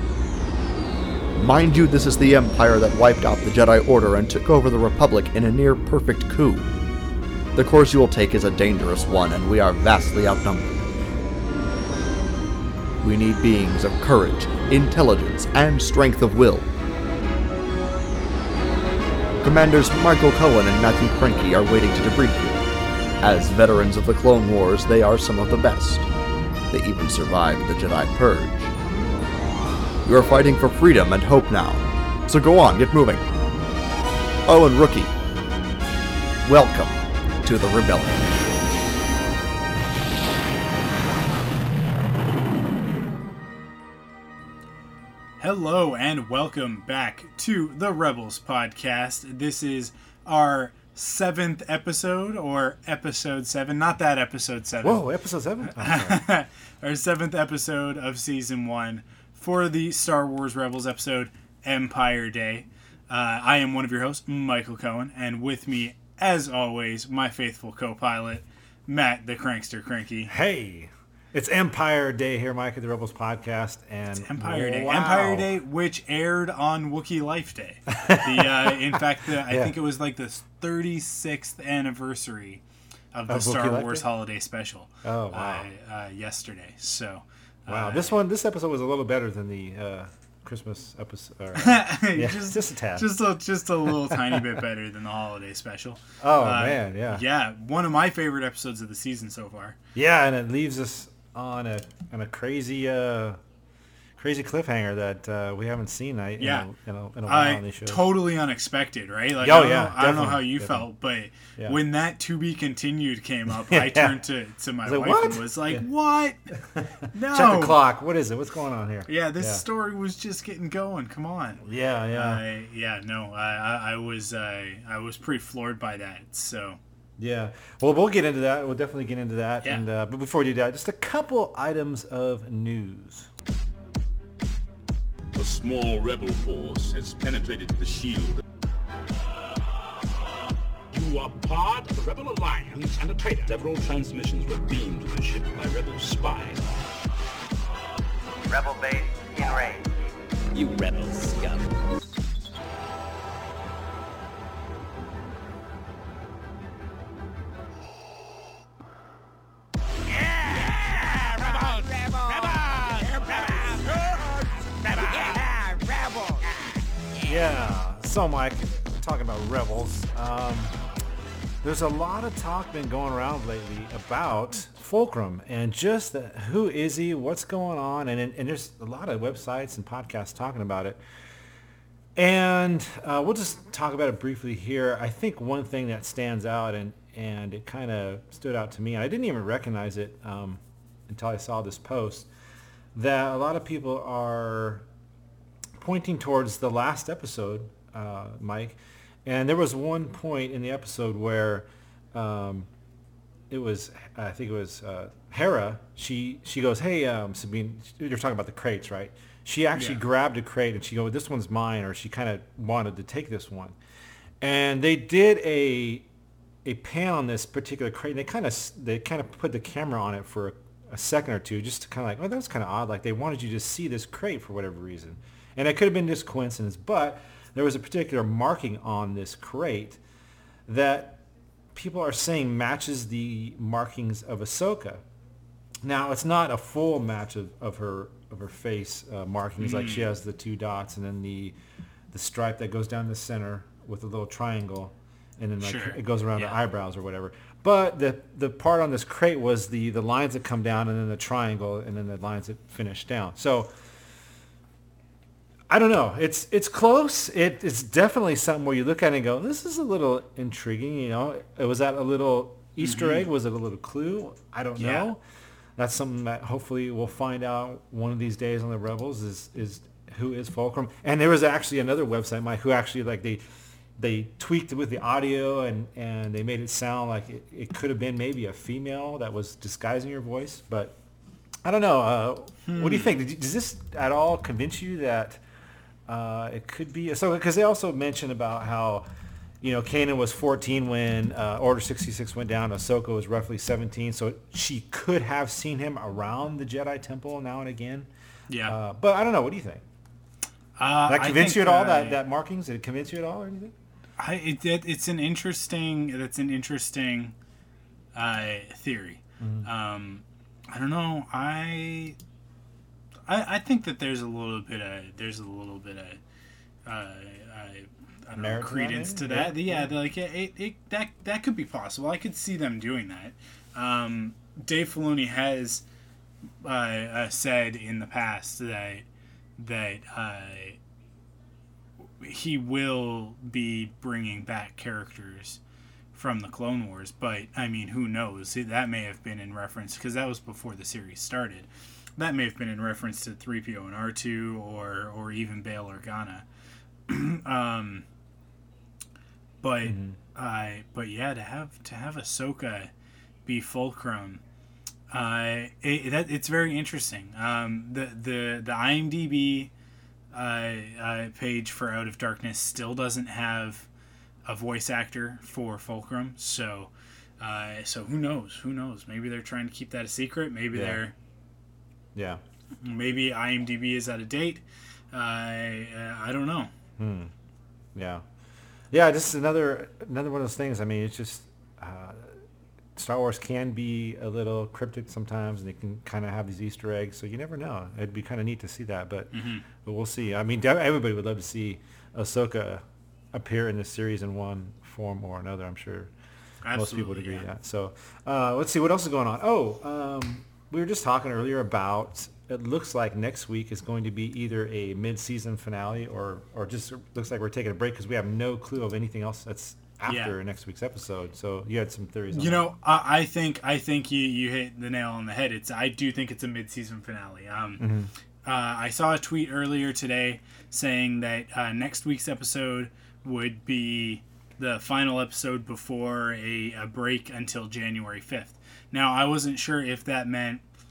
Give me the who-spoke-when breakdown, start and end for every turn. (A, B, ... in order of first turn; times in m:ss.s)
0:01.3-0:06.7 A
0:07.6-0:10.7 A
0:13.0-0:16.7 A
0:19.4-0:22.6 A
0:23.2-0:26.1 A
0:26.7-0:28.7 A
0:30.0-0:33.3 A
0:34.4-0:35.1 A
0:36.4-0:38.4 A
0:45.4-0:55.0 B
0:54.8-0:56.2 C
0:55.6-1:10.3 B
1:10.3-1:15.6 C
1:14.2-1:22.6 B
1:18.0-1:19.7 C
1:23.1-1:28.1 B
1:23.3-1:24.1 C
1:25.0-1:25.7 C
1:27.7-1:33.1 C
1:31.5-1:39.8 B
1:33.9-1:34.4 C
1:36.2-1:37.2 C
1:39.9-1:43.4 C
1:44.2-1:48.0 C
1:46.4-1:46.7 B
1:47.2-1:56.4 B
1:49.4-1:50.9 C
1:53.5-1:54.2 C
1:54.8-1:55.8 C
1:56.5-1:59.6 C
1:57.1-1:57.8 B
1:59.1-2:06.8 B
2:01.6-2:02.4 C
2:07.2-2:13.3 C
2:15.3-2:18.4 D
2:20.9-2:26.6 D
2:28.5-2:29.8 E
2:41.5-2:42.3 E
2:45.1-2:46.4 E
2:47.2-2:50.7 C
2:51.6-3:01.0 C
3:02.2-3:12.3 C
3:12.9-3:14.9 C
3:15.8-3:22.7 C
3:23.5-3:33.8 C
3:29.7-3:30.0 B
3:34.4-3:36.1 C
3:36.6-3:50.0 C
3:50.7-3:55.0 C
3:55.8-4:01.6 C
3:59.6-4:00.1 B
4:02.1-4:13.7 C
4:05.6-4:06.6 B
4:15.7-4:25.2 C
4:22.8-4:23.3 B
4:24.8-4:25.1 B
4:25.8-4:33.4 C
4:34.0-4:41.0 C
4:41.6-4:45.4 C
4:42.6-4:43.2 B
4:46.1-4:49.1 C
4:49.6-4:58.1 C
4:58.5-4:58.8 B
4:58.6-4:59.8 C
5:00.8-5:02.2 B
5:01.0-5:03.7 C
5:04.2-5:07.3 B
5:08.1-5:12.2 B
5:09.4-5:09.7 C
5:13.3-5:16.2 B
5:16.8-5:25.8 B
5:18.3-5:19.9 C
5:26.6-5:29.0 B
5:29.6-5:30.8 B
5:32.2-5:35.6 B
5:36.1-5:46.4 B
5:47.1-5:48.1 B
5:49.6-5:52.9 B
5:49.8-5:50.2 C
5:53.4-5:54.4 B
5:55.1-5:59.7 B
6:00.3-6:03.9 B
6:04.4-6:11.1 B
6:10.7-6:11.0 C
6:12.1-6:12.4 C
6:12.8-6:16.7 B
6:17.0-6:17.3 C
6:17.9-6:18.2 C
6:18.9-6:22.4 C
6:23.0-6:36.1 C
6:29.3-6:29.6 B
6:36.6-6:37.5 B
6:36.7-6:52.7 C
6:50.0-6:50.4 B
6:52.3-6:57.9 B
6:57.8-6:58.1 C
6:58.4-7:10.6 B